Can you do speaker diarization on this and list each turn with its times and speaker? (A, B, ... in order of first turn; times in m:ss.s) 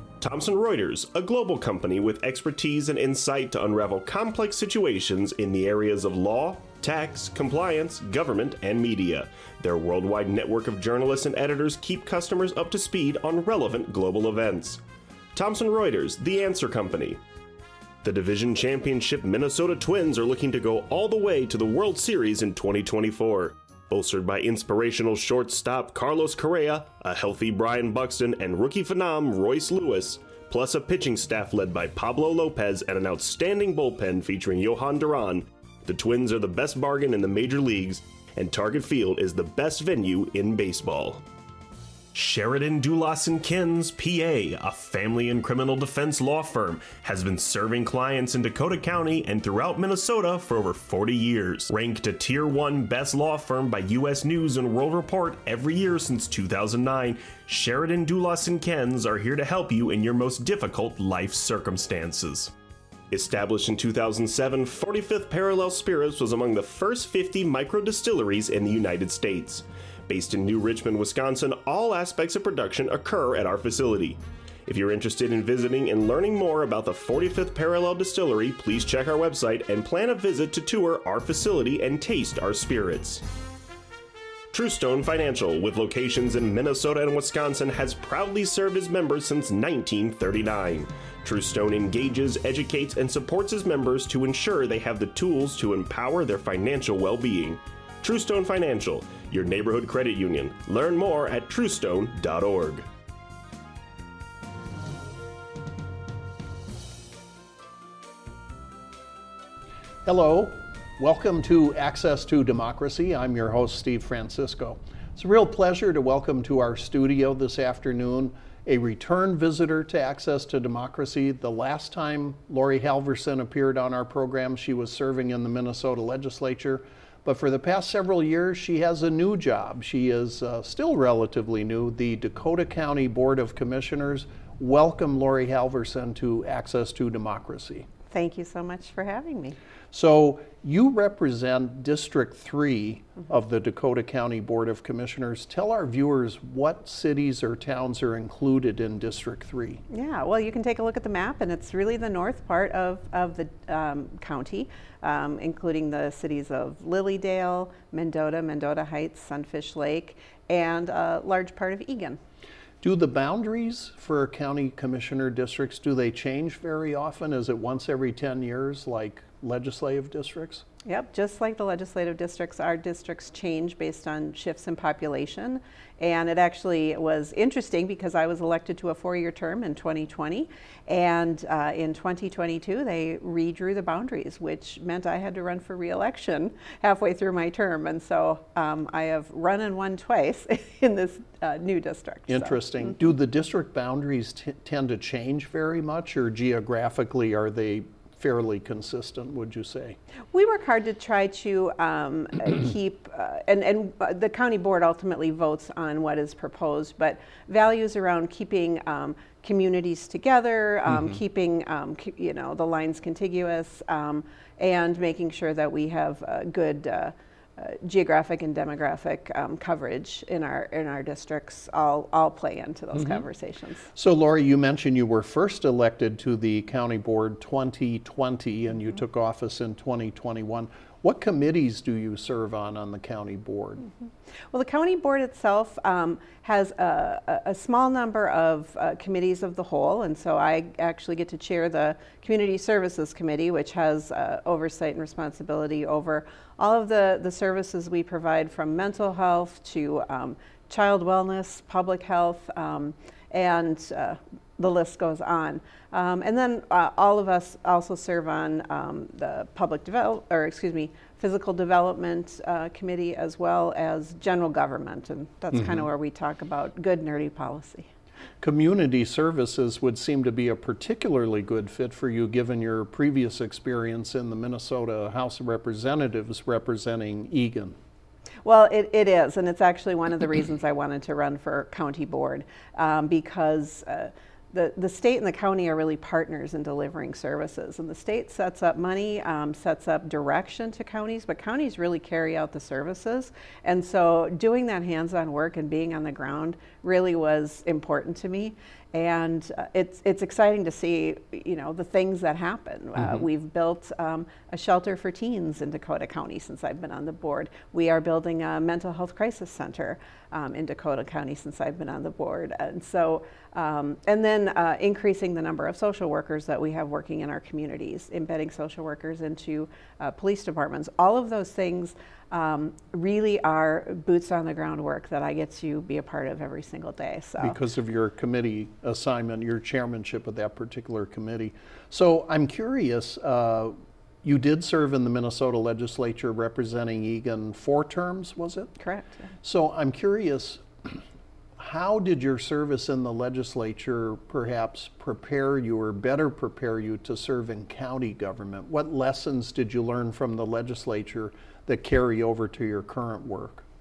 0:00.2-0:14.8 A
0:15.3-0:17.2 A
0:18.0-0:41.2 A
0:42.1-1:02.5 A
1:03.1-1:23.2 A
1:24.5-1:42.8 A
1:50.0-2:17.9 B
2:18.1-2:19.6 C
2:19.9-2:29.8 B
2:29.9-2:42.2 C
2:42.8-2:50.6 B
2:50.8-3:13.0 C
3:12.3-3:20.0 B
3:20.3-3:43.9 C
3:44.0-3:53.9 B
3:54.5-4:27.9 C
4:25.5-4:25.8 B
4:28.4-4:37.8 B
4:38.4-5:27.6 C
5:27.4-5:38.7 B
5:38.8-5:39.3 C
5:39.4-5:41.0 B
5:41.6-5:53.6 B